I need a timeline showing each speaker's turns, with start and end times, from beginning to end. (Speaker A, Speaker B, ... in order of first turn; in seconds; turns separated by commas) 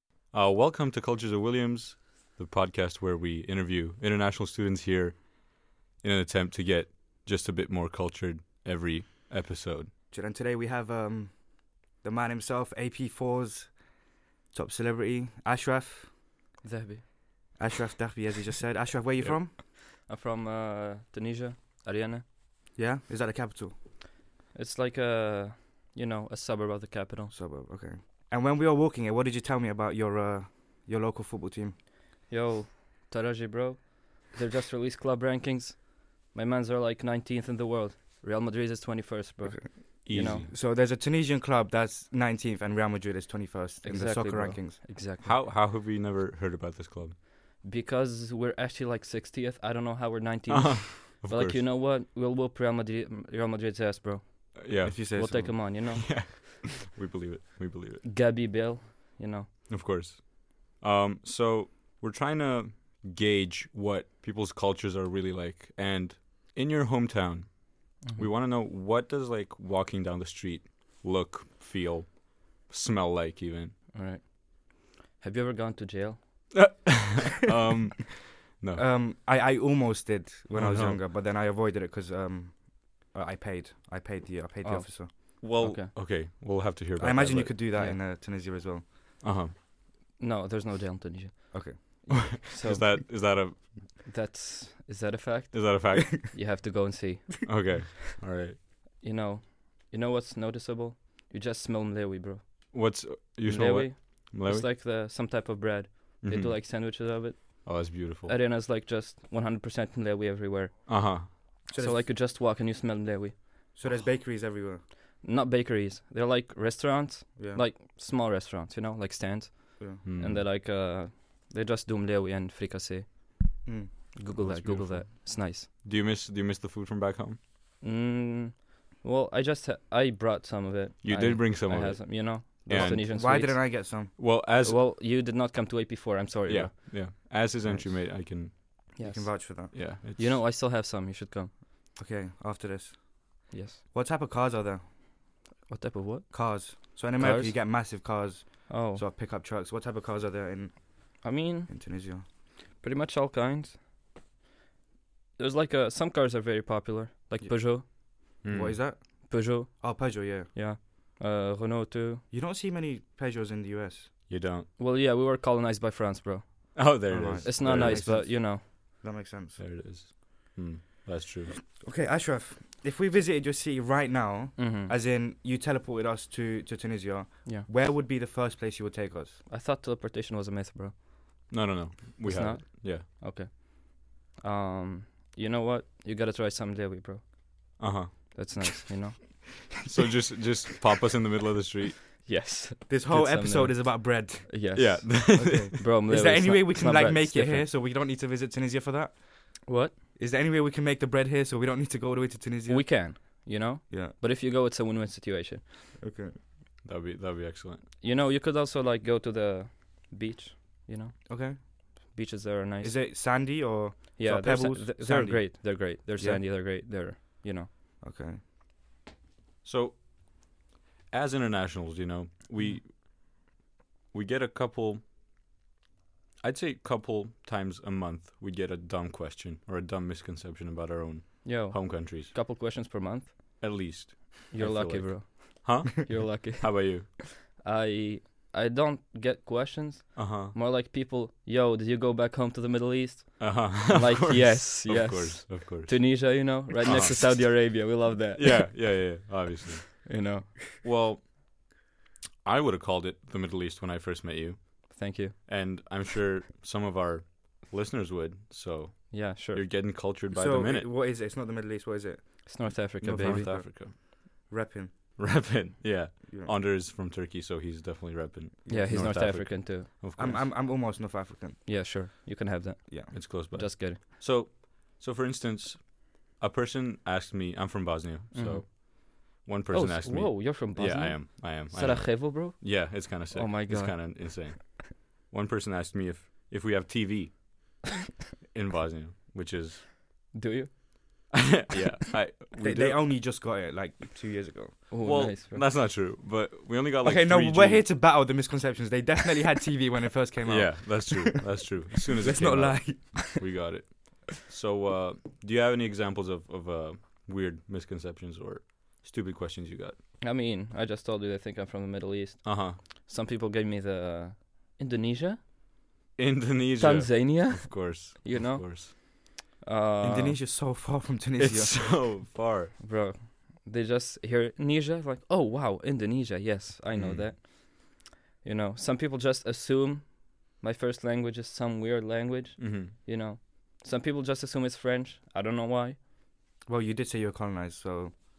Speaker A: 0.3-9.9, Speaker B: 10.1-16.1, Speaker C: 16.6-17.1, Speaker B: 17.6-19.5, Speaker C: 19.6-22.2, Speaker B: 22.8-23.7, Speaker C: 24.5-27.3, Speaker B: 27.3-31.8, Speaker C: 32.3-40.5, Speaker B: 39.4-44.8, Speaker A: 40.0-40.5, Speaker C: 43.8-45.3, Speaker A: 45.2-47.2, Speaker C: 47.6-56.4, Speaker A: 50.5-51.7, Speaker A: 54.6-58.0, Speaker B: 54.8-55.6, Speaker C: 58.0-59.5, Speaker A: 59.7-73.8, Speaker C: 68.0-68.3, Speaker C: 73.9-76.7, Speaker A: 76.6-78.9, Speaker B: 78.8-85.1, Speaker A: 80.5-81.0, Speaker C: 84.6-85.9, Speaker A: 85.4-87.8, Speaker B: 87.0-88.9, Speaker C: 87.8-88.0, Speaker A: 89.2-89.5, Speaker C: 90.2-97.8, Speaker B: 91.5-92.3, Speaker A: 92.4-94.0, Speaker A: 95.5-96.3, Speaker A: 97.5-98.6, Speaker C: 99.0-102.9, Speaker A: 102.7-104.7, Speaker C: 103.4-113.4, Speaker A: 106.2-108.3, Speaker A: 110.9-111.6, Speaker B: 111.7-112.1, Speaker B: 113.8-114.8, Speaker C: 115.2-125.7, Speaker B: 117.4-117.6, Speaker A: 120.0-120.5, Speaker B: 123.7-125.0, Speaker A: 124.5-127.4, Speaker C: 127.8-136.7, Speaker A: 131.0-133.0, Speaker B: 132.7-134.2, Speaker A: 134.2-135.0, Speaker A: 136.5-138.9, Speaker B: 137.6-139.8, Speaker C: 139.0-141.5, Speaker A: 139.7-140.4, Speaker B: 142.0-144.8, Speaker C: 143.5-143.8, Speaker C: 145.7-147.7, Speaker B: 146.3-152.2, Speaker C: 148.7-149.0, Speaker C: 151.2-151.7, Speaker C: 152.8-153.8, Speaker C: 155.4-157.9, Speaker B: 157.4-160.5, Speaker A: 158.4-158.8, Speaker C: 159.3-162.2, Speaker B: 162.3-164.1, Speaker A: 164.3-164.7, Speaker C: 164.8-168.7, Speaker A: 166.8-168.2, Speaker B: 167.1-169.6, Speaker A: 169.6-171.6, Speaker B: 171.7-179.4, Speaker C: 174.6-174.9, Speaker C: 179.5-181.5, Speaker A: 181.5-183.1, Speaker C: 182.2-189.7, Speaker A: 187.8-188.3, Speaker A: 189.9-192.0, Speaker C: 192.2-197.7, Speaker B: 192.9-204.1, Speaker A: 194.8-195.9, Speaker C: 199.7-199.9, Speaker C: 202.7-205.7, Speaker B: 206.0-206.4, Speaker A: 206.8-207.9, Speaker C: 208.0-213.0, Speaker B: 211.3-211.6, Speaker B: 212.8-216.4, Speaker C: 214.2-217.7, Speaker B: 218.0-218.4, Speaker A: 219.6-223.3, Speaker A: 224.1-225.0, Speaker A: 226.4-232.3, Speaker C: 231.4-233.7, Speaker A: 233.6-237.2, Speaker C: 234.5-249.1, Speaker A: 240.2-240.6, Speaker A: 243.4-250.3, Speaker C: 250.0-250.6, Speaker A: 250.8-251.7, Speaker A: 252.4-260.9, Speaker C: 254.9-255.5, Speaker C: 259.1-259.6, Speaker B: 260.3-265.5, Speaker C: 262.4-263.5, Speaker A: 263.0-263.9, Speaker A: 265.2-270.5, Speaker B: 266.2-266.5, Speaker B: 268.6-269.0, Speaker C: 268.7-269.9, Speaker B: 270.2-272.2, Speaker C: 271.6-274.0, Speaker B: 272.9-273.1, Speaker A: 273.1-287.8, Speaker C: 278.3-278.7, Speaker C: 279.7-284.8, Speaker A: 288.5-290.0, Speaker C: 290.3-291.3, Speaker A: 291.6-293.0, Speaker B: 292.6-294.9, Speaker C: 294.9-295.7, Speaker A: 295.0-297.9, Speaker B: 297.0-303.4, Speaker A: 300.4-310.0, Speaker C: 310.2-315.4, Speaker A: 312.4-312.8, Speaker A: 316.2-318.9, Speaker C: 316.8-320.4, Speaker B: 320.0-321.9, Speaker A: 321.4-322.8, Speaker C: 322.8-336.0, Speaker A: 326.9-327.3, Speaker A: 332.6-332.9, Speaker B: 336.6-338.1